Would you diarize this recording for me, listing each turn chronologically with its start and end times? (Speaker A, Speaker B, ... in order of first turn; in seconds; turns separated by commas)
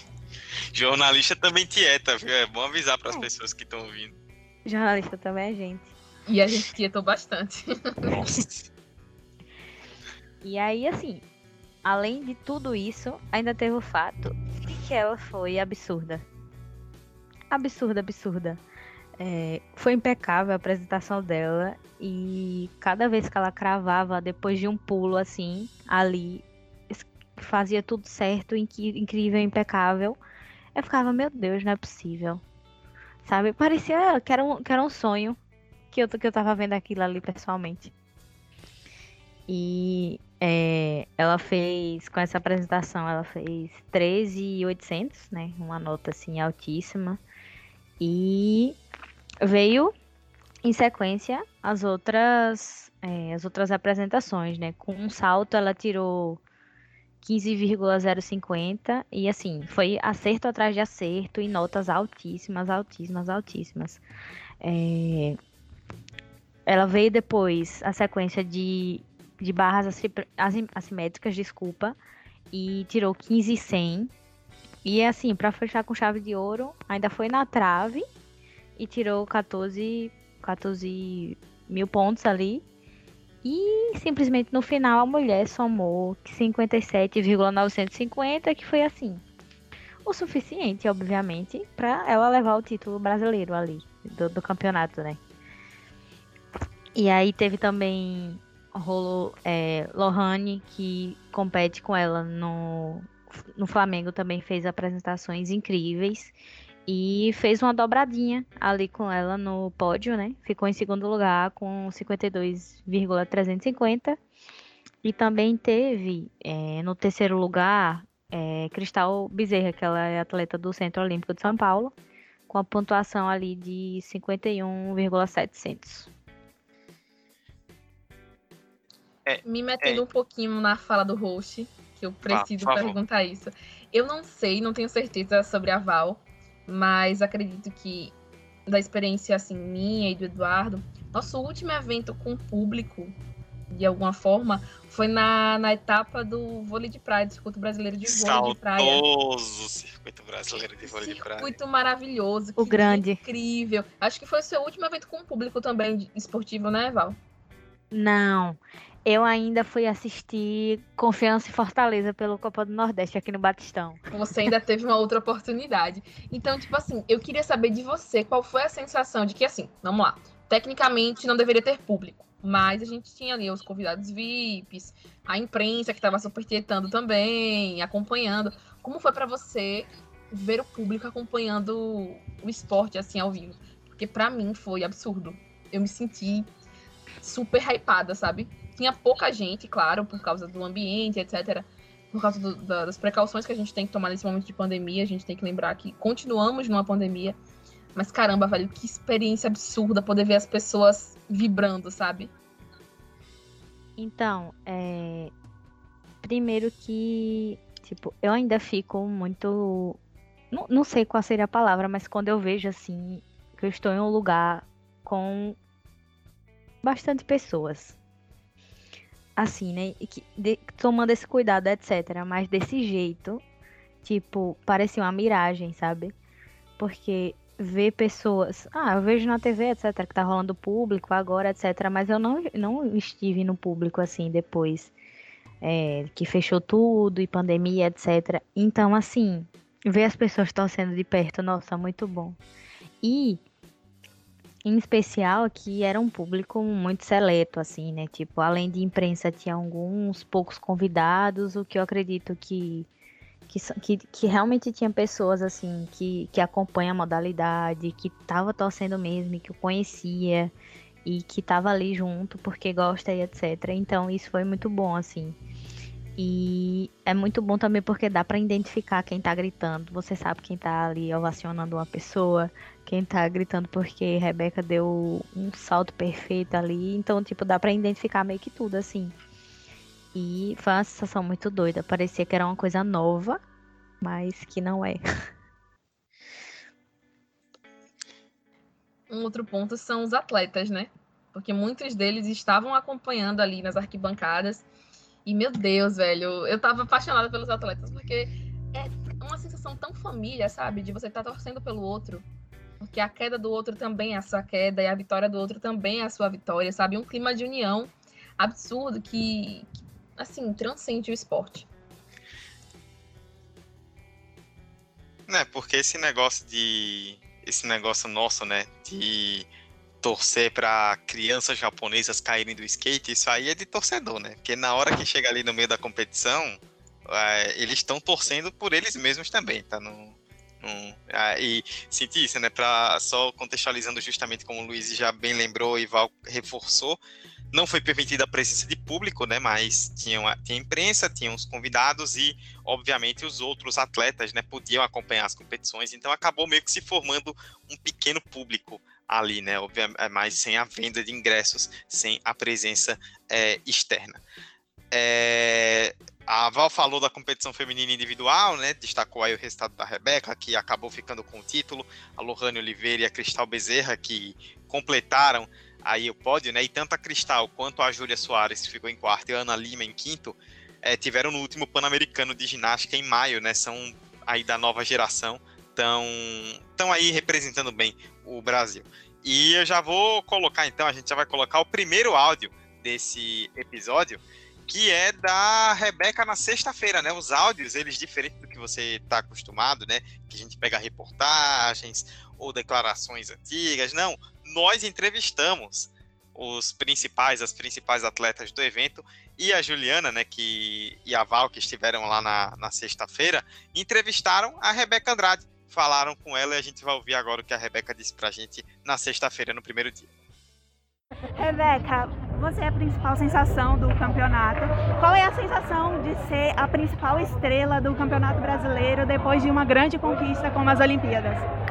Speaker A: 0.7-4.1, Speaker B: 4.7-5.9, Speaker C: 6.3-8.2, Speaker A: 8.1-8.7, Speaker B: 10.4-11.2, Speaker B: 11.8-16.2, Speaker B: 17.5-18.6, Speaker B: 19.2-30.2, Speaker B: 30.7-32.4, Speaker B: 33.2-35.4, Speaker B: 35.9-37.9, Speaker B: 39.5-47.2, Speaker B: 48.0-48.8, Speaker B: 49.4-49.9, Speaker B: 50.6-56.4, Speaker B: 57.2-64.0, Speaker B: 64.6-65.4, Speaker B: 66.7-72.0, Speaker B: 72.5-74.1, Speaker B: 74.8-78.0, Speaker B: 78.8-82.6, Speaker B: 83.4-89.2, Speaker B: 90.0-95.2, Speaker B: 97.0-106.3, Speaker B: 106.8-114.2, Speaker B: 115.0-121.9, Speaker B: 122.5-126.1, Speaker A: 129.2-130.0, Speaker C: 129.4-138.1, Speaker A: 132.2-133.0, Speaker C: 138.7-143.1, Speaker C: 143.7-149.0, Speaker A: 148.0-151.5, Speaker C: 150.8-157.2, Speaker B: 152.6-153.2, Speaker B: 157.9-164.0, Speaker C: 164.1-186.5, Speaker C: 187.2-197.4, Speaker C: 197.9-202.3, Speaker B: 204.0-205.3, Speaker B: 206.2-210.0, Speaker B: 210.5-215.6, Speaker B: 216.8-217.9, Speaker B: 219.4-223.4, Speaker B: 224.0-226.1, Speaker B: 226.8-234.9, Speaker B: 235.6-242.4, Speaker B: 243.0-243.4, Speaker B: 244.6-252.9, Speaker B: 253.5-260.5, Speaker B: 261.0-265.4, Speaker B: 266.2-279.1, Speaker B: 280.1-283.4, Speaker B: 284.0-285.0, Speaker C: 289.1-294.6, Speaker C: 295.2-302.2, Speaker C: 302.8-311.7, Speaker A: 315.3-319.5, Speaker A: 320.0-337.0, Speaker A: 337.5-354.2, Speaker A: 354.9-410.1, Speaker D: 411.4-421.5